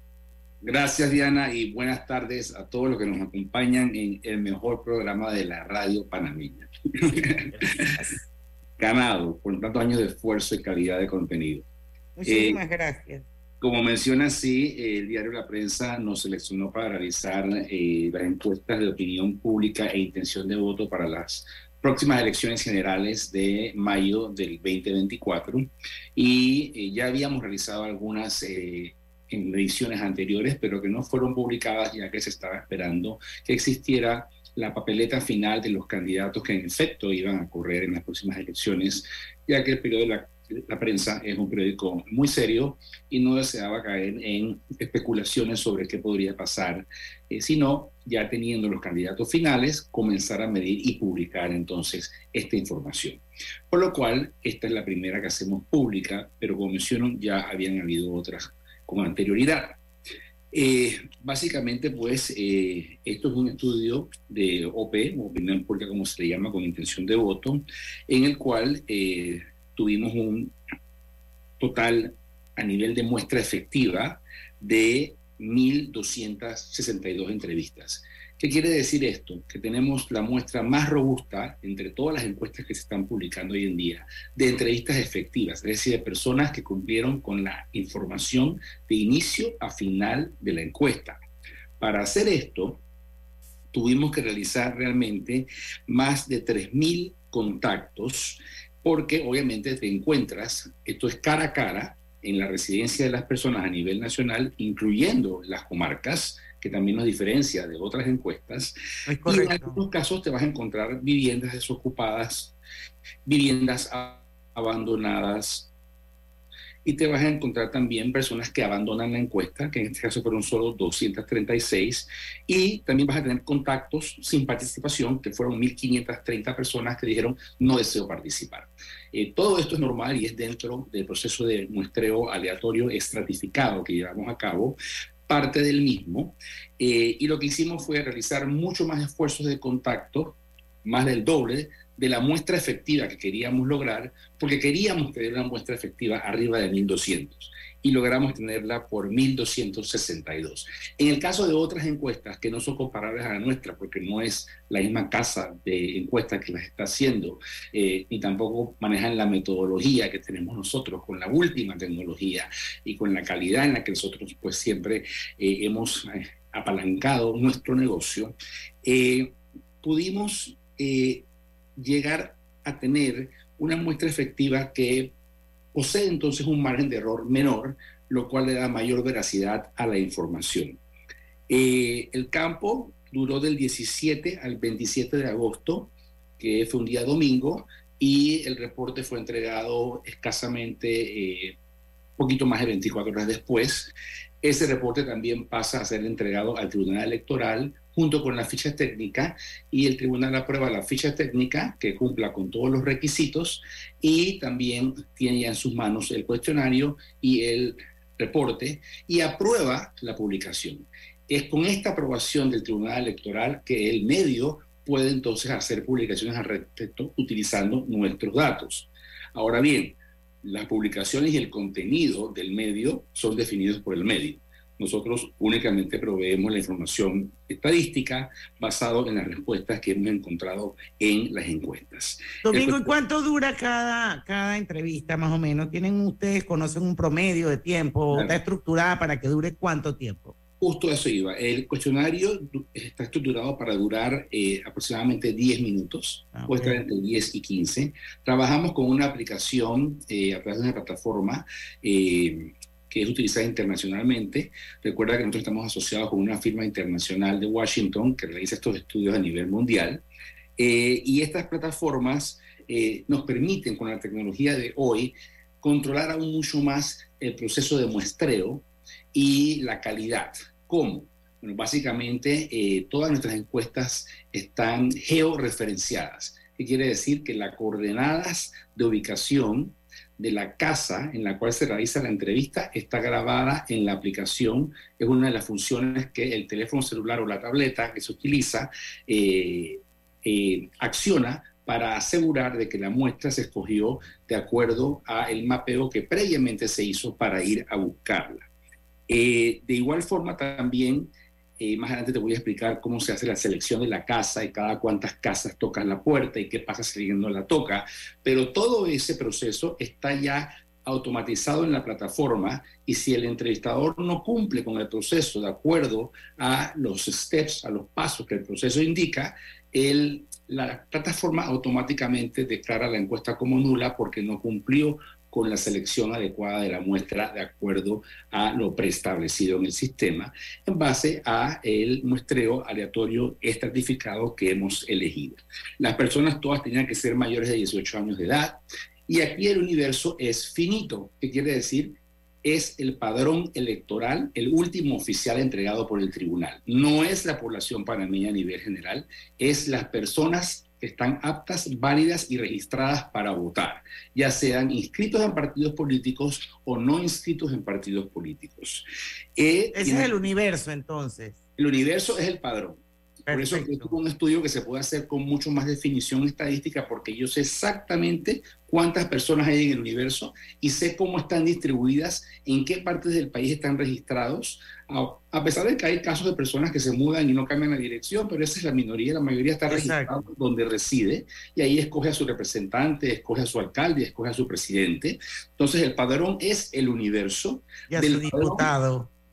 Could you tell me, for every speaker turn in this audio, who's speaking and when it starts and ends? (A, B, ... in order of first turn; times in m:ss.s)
0:00.6-0:06.7 A
0:07.1-0:08.2 B
0:07.2-0:07.8 A
0:08.8-0:11.6 A
0:12.2-0:13.2 B
0:12.2-0:12.6 A
0:13.6-0:59.8 A
1:00.5-1:10.5 A
1:11.6-1:31.2 A
1:31.8-1:32.8 A
1:33.7-1:48.7 A
1:49.1-1:49.8 B
1:49.2-1:52.5 A
1:53.2-1:55.7 A
1:56.8-2:14.8 A
2:15.3-2:51.2 A
2:51.8-2:55.1 A
2:55.7-3:00.8 A
3:01.5-3:11.6 A
3:12.2-3:52.9 A
3:52.4-4:00.3 B
3:58.1-3:58.4 A
4:00.6-4:20.0 A
4:06.3-4:06.8 B
4:20.6-4:58.5 A
4:59.1-5:58.8 A
5:59.4-6:00.2 A
5:59.7-6:01.4 B
6:01.6-6:28.7 A
6:03.3-6:03.9 B
6:19.7-6:20.1 B
6:27.9-6:29.1 B